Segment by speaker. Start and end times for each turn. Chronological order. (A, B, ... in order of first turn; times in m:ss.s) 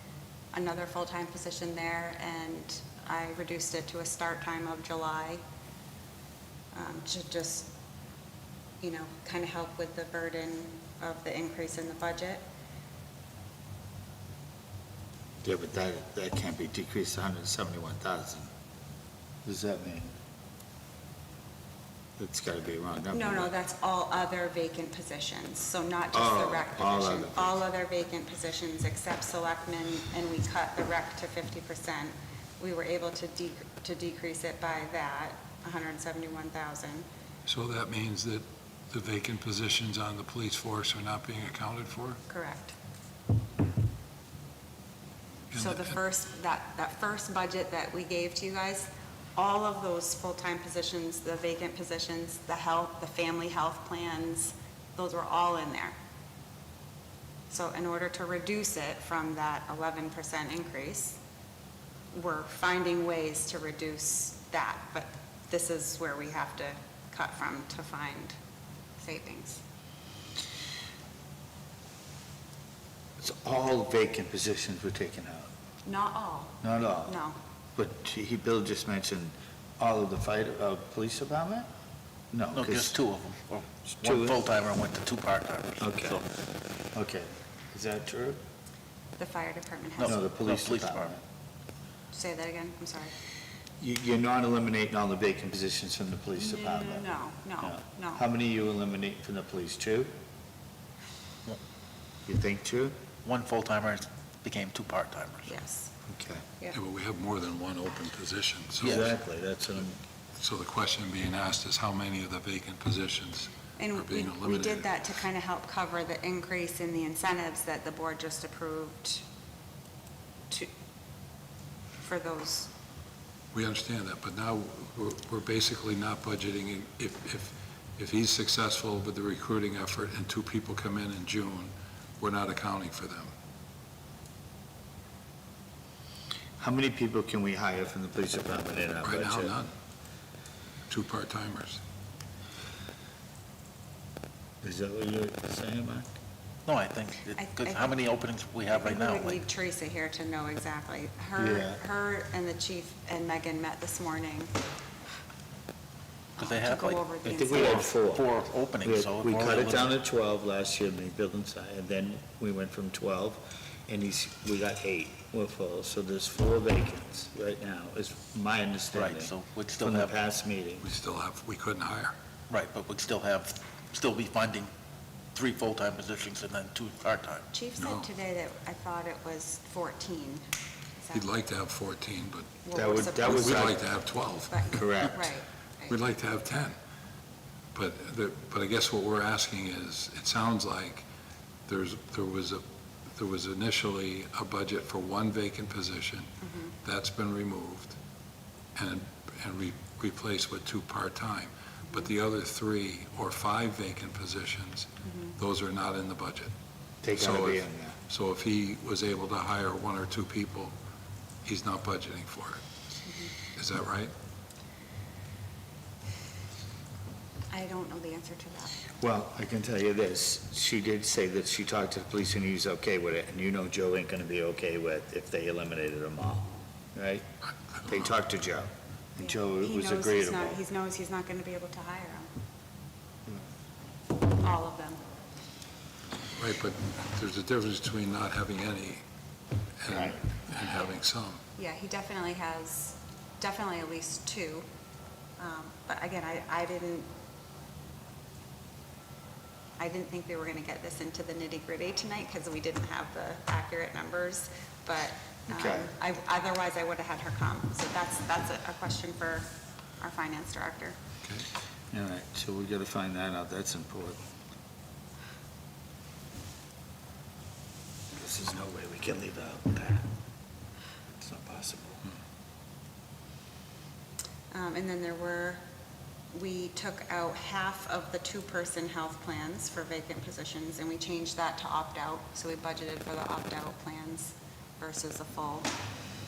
0:00.5-0:05.4 A
0:06.7-0:07.7 A
0:08.8-0:12.4 A
0:15.4-0:18.5 B
0:19.4-0:20.1 B
0:22.2-0:23.5 B
0:23.1-0:37.0 A
0:26.1-0:27.6 B
0:37.4-0:42.2 C
0:42.3-0:42.7 A
0:45.5-0:45.9 C
0:45.5-0:56.0 A
0:57.5-1:01.2 A
1:02.1-1:08.4 A
1:09.0-1:09.6 A
1:13.2-1:15.5 B
1:15.8-1:17.4 A
1:16.6-1:17.2 B
1:17.8-1:21.7 B
1:22.3-1:22.9 B
1:22.5-1:26.3 D
1:23.9-1:24.4 B
1:25.8-1:26.2 B
1:26.9-1:28.4 B
1:29.2-1:30.2 A
1:30.0-1:31.1 D
1:30.0-1:31.2 B
1:32.1-1:33.1 A
1:33.8-1:37.1 B
1:36.4-1:38.2 A
1:37.6-1:40.1 B
1:42.2-1:42.9 B
1:43.2-1:45.5 D
1:45.5-1:45.9 A
1:46.1-1:46.4 B
1:46.7-1:49.1 C
1:48.8-1:49.1 D
1:48.8-1:50.0 B
1:50.4-1:54.9 C
1:53.8-1:59.2 A
2:02.0-2:02.7 A
2:03.5-2:13.3 C
2:16.6-2:19.5 B
2:19.0-2:19.7 C
2:20.9-2:21.8 C
2:24.6-2:26.1 B
2:26.6-2:29.4 D
2:27.4-2:27.9 A
2:28.7-2:34.5 A
2:31.4-2:31.8 B
2:36.4-2:37.9 A
2:36.4-2:39.9 D
2:37.2-2:38.2 B
2:38.8-2:50.8 B
2:48.9-2:50.1 D
2:50.8-2:52.1 C
2:52.5-2:54.7 D
2:55.3-2:57.5 D
2:57.5-3:00.4 A
2:57.8-2:58.1 C
3:01.1-3:02.6 C
3:02.6-3:03.7 A
3:02.7-3:03.8 B
3:03.2-3:04.8 C
3:04.5-3:06.0 A
3:04.7-3:05.2 B
3:05.9-3:06.8 C
3:07.7-3:11.0 C
3:11.7-3:12.6 C
3:13.1-3:16.3 C
3:16.4-3:16.7 A
3:16.8-3:17.9 C
3:18.7-3:26.5 C
3:25.0-3:25.3 A
3:27.0-3:28.0 B
3:27.2-3:30.7 C
3:31.4-3:32.6 C
3:33.0-3:33.3 A
3:33.6-3:34.1 C
3:37.5-3:38.8 A
3:39.0-3:47.2 B
3:47.8-3:50.6 B
3:49.2-3:52.3 A
3:54.3-3:55.0 A
3:56.4-3:59.0 C
3:59.8-4:01.4 C
3:59.9-4:00.2 B
4:01.6-4:04.6 A
4:05.4-4:07.1 A
4:09.8-4:19.5 A
4:15.5-4:15.9 B
4:20.0-4:21.0 A
4:21.9-4:24.2 B
4:28.1-4:30.1 B
4:31.2-4:32.0 B
4:34.5-4:35.6 A
4:36.3-4:45.7 A